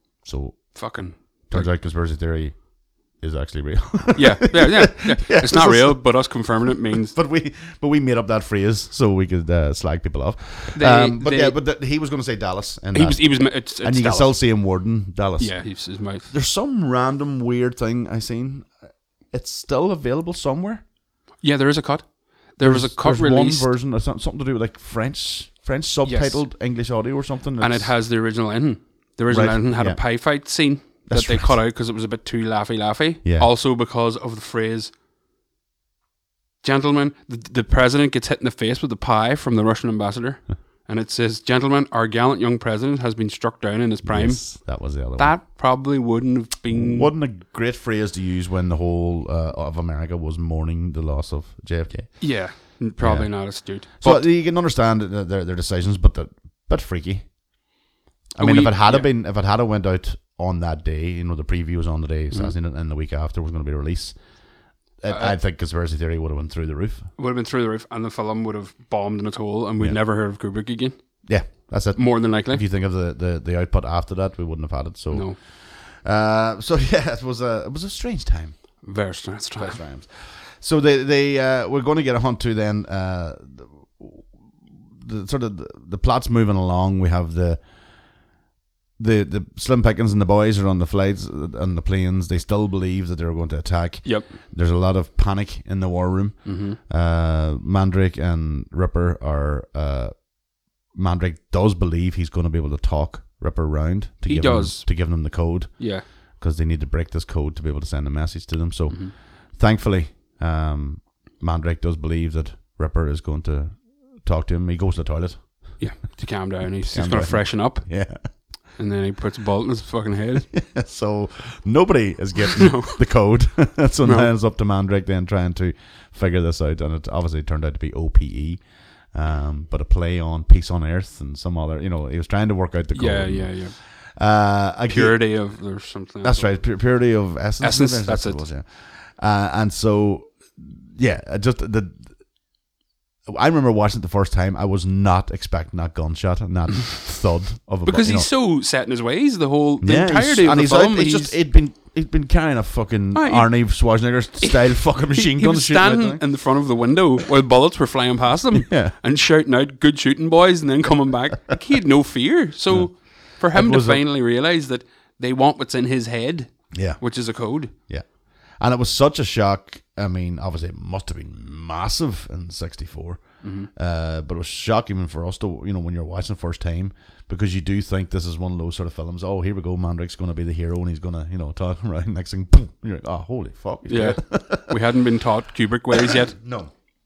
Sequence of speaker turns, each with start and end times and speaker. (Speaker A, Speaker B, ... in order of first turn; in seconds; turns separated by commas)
Speaker A: 0.2-18.8, Speaker B: 0.7-1.7, Speaker B: 4.1-7.1, Speaker B: 10.7-11.6, Speaker B: 12.9-14.4, Speaker B: 15.4-16.2, Speaker A: 19.3-20.8, Speaker B: 21.4-23.7, Speaker A: 22.6-27.9, Speaker B: 26.0-26.4, Speaker B: 27.6-34.9, Speaker A: 29.3-30.5, Speaker A: 31.0-31.6, Speaker A: 33.2-33.5, Speaker B: 36.6-47.1, Speaker A: 44.0-45.4, Speaker A: 46.7-57.3, Speaker B: 52.2-54.3, Speaker A: 58.3-64.2, Speaker B: 58.4-59.1, Speaker A: 65.0-67.1, Speaker B: 65.1-65.3, Speaker B: 67.2-71.0, Speaker A: 71.2-78.8, Speaker B: 71.9-72.6, Speaker B: 75.1-75.4, Speaker B: 78.8-79.8, Speaker A: 79.5-84.3, Speaker A: 85.0-87.6, Speaker A: 89.0-116.0, Speaker B: 94.0-94.4, Speaker B: 96.4-96.8, Speaker B: 104.2-105.3, Speaker B: 105.8-106.0, Speaker B: 108.9-109.1, Speaker B: 115.8-120.5, Speaker A: 116.9-118.3, Speaker A: 120.5-142.2, Speaker B: 122.6-123.0, Speaker B: 124.0-124.3, Speaker B: 132.9-133.8, Speaker B: 134.9-136.6, Speaker B: 137.6-138.4, Speaker A: 143.3-148.3, Speaker B: 147.8-151.3, Speaker A: 149.8-156.2, Speaker B: 153.1-167.7, Speaker A: 158.5-158.9, Speaker A: 162.7-164.0, Speaker A: 166.7-167.2, Speaker A: 167.7-184.8, Speaker B: 173.4-173.7, Speaker B: 183.9-186.3, Speaker A: 185.9-186.7